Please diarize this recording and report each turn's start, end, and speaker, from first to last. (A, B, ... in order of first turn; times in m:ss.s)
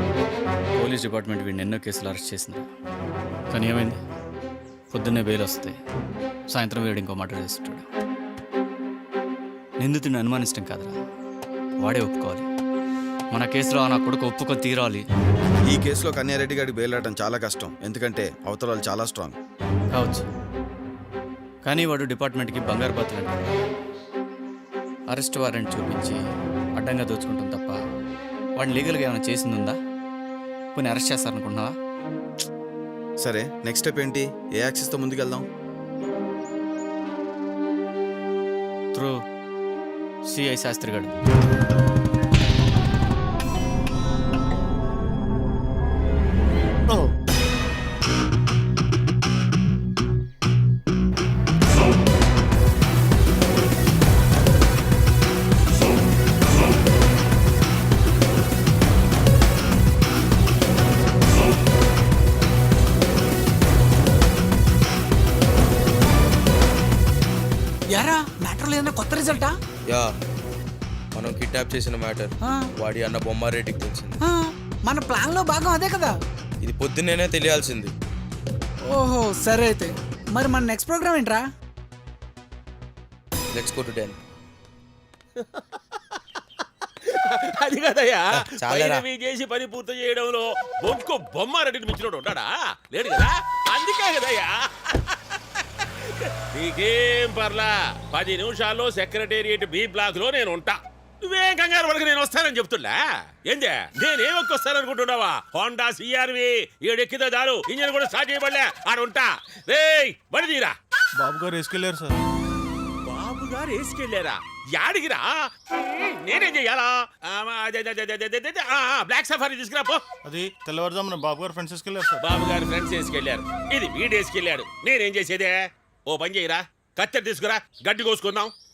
0:00.8-0:02.7 A
0:03.5-0:04.0 A
0:04.9-0:05.8 A
0:06.5-0:07.8 A
0:09.8-0:11.0 A
0:11.8-0:12.5 A
0:13.3-0:15.0 A
0:15.6-0:19.4 B
0:19.9-0:20.2 A
0:21.6-0:23.5 A
0:25.1-0:26.2 A
0:26.7-0:27.8 A
0:28.6-0:29.8 A
0:30.7-0:31.7 A
0:33.2-0:35.4 B
0:40.3-0:41.2 A
1:07.9-1:09.5 C
1:09.8-1:10.1 D
1:11.1-1:14.2 D
1:14.2-1:16.1 C
1:16.6-1:17.9 D
1:18.9-1:21.4 C
1:23.5-1:24.2 D
1:27.0-1:35.2 E
1:28.3-1:29.0 D
1:36.0-1:50.7 E
1:51.2-1:52.2 F
1:53.0-2:00.0 E
2:00.2-2:02.2 F
2:02.2-2:08.5 E